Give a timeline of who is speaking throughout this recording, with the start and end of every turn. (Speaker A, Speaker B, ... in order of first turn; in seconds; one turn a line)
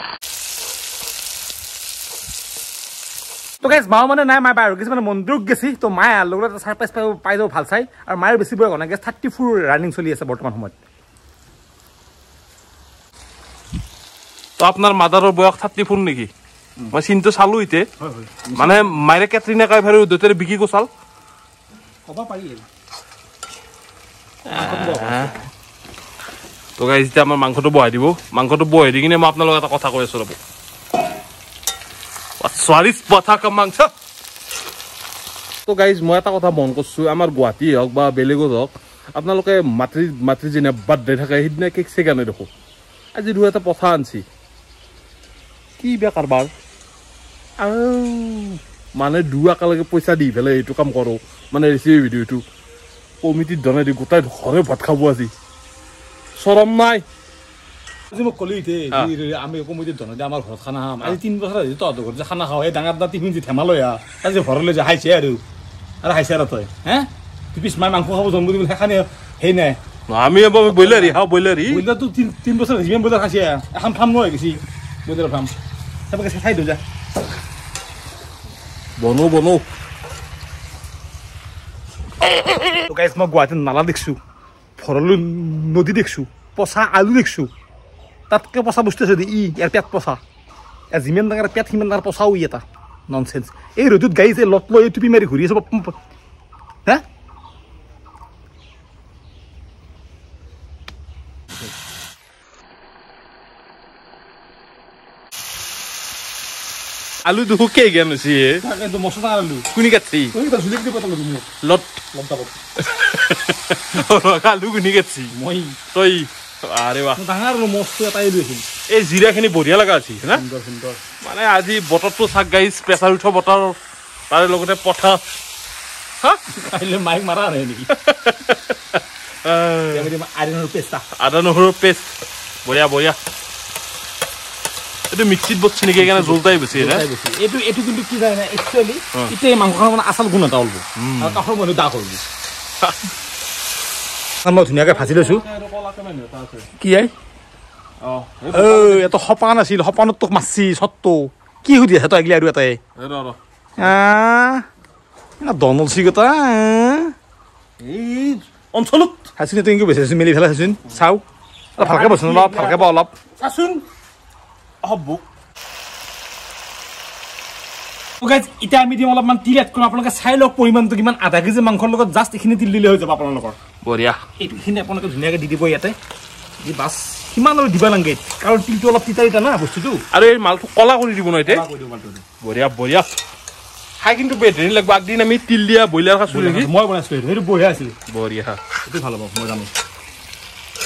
Speaker A: 3.6-10.8
Speaker B: 14.6-16.3
Speaker B: 16.9-17.9
Speaker A: 18.0-18.9
Speaker B: 18.5-20.9
Speaker A: 22.1-22.7
Speaker B: 24.5-25.3
Speaker A: 24.5-25.4
Speaker B: 26.8-30.4
Speaker B: 32.4-33.9
Speaker B: 35.6-42.5
Speaker B: 43.1-44.2
Speaker B: 45.8-46.5
Speaker B: 47.6-52.4
Speaker B: 53.2-55.3
Speaker B: 56.4-57.0
Speaker A: 58.1-65.4
Speaker A: 66.0-69.8
Speaker B: 70.1-71.8
Speaker A: 70.7-75.5
Speaker A: 76.1-76.8
Speaker B: 79.0-79.6
Speaker A: 82.7-84.2
Speaker A: 84.8-87.5
Speaker A: 88.3-90.2
Speaker A: 90.9-95.9
Speaker B: 107.2-108.6
Speaker A: 108.6-109.7
Speaker B: 109.7-110.3
Speaker A: 110.3-111.5
Speaker B: 111.6-112.0
Speaker A: 112.1-112.6
Speaker B: 112.8-115.3
Speaker A: 115.3-115.8
Speaker B: 115.9-117.2
Speaker A: 117.2-118.7
Speaker B: 118.9-120.4
Speaker A: 120.3-121.0
Speaker B: 121.2-123.8
Speaker B: 124.3-125.2
Speaker A: 126.5-127.9
Speaker B: 127.9-130.1
Speaker A: 129.9-131.0
Speaker B: 131.2-132.1
Speaker B: 132.6-133.2
Speaker B: 135.1-137.1
Speaker A: 135.9-142.2
Speaker B: 140.9-141.4
Speaker A: 144.4-145.4
Speaker B: 144.8-146.7
Speaker A: 146.8-147.1
Speaker B: 148.0-149.1
Speaker A: 148.5-152.8
Speaker B: 153.0-153.4
Speaker A: 153.8-154.6
Speaker A: 155.4-157.1
Speaker B: 157.8-159.3
Speaker A: 159.4-161.2
Speaker A: 161.8-163.1
Speaker B: 161.8-163.8
Speaker B: 164.8-165.2
Speaker A: 168.2-173.6
Speaker B: 173.8-174.2
Speaker A: 174.4-175.9
Speaker A: 176.6-180.0
Speaker B: 180.1-181.6
Speaker A: 181.4-182.2
Speaker B: 182.4-183.2
Speaker B: 184.0-186.7
Speaker A: 186.3-188.0
Speaker B: 188.1-188.6
Speaker A: 188.8-189.7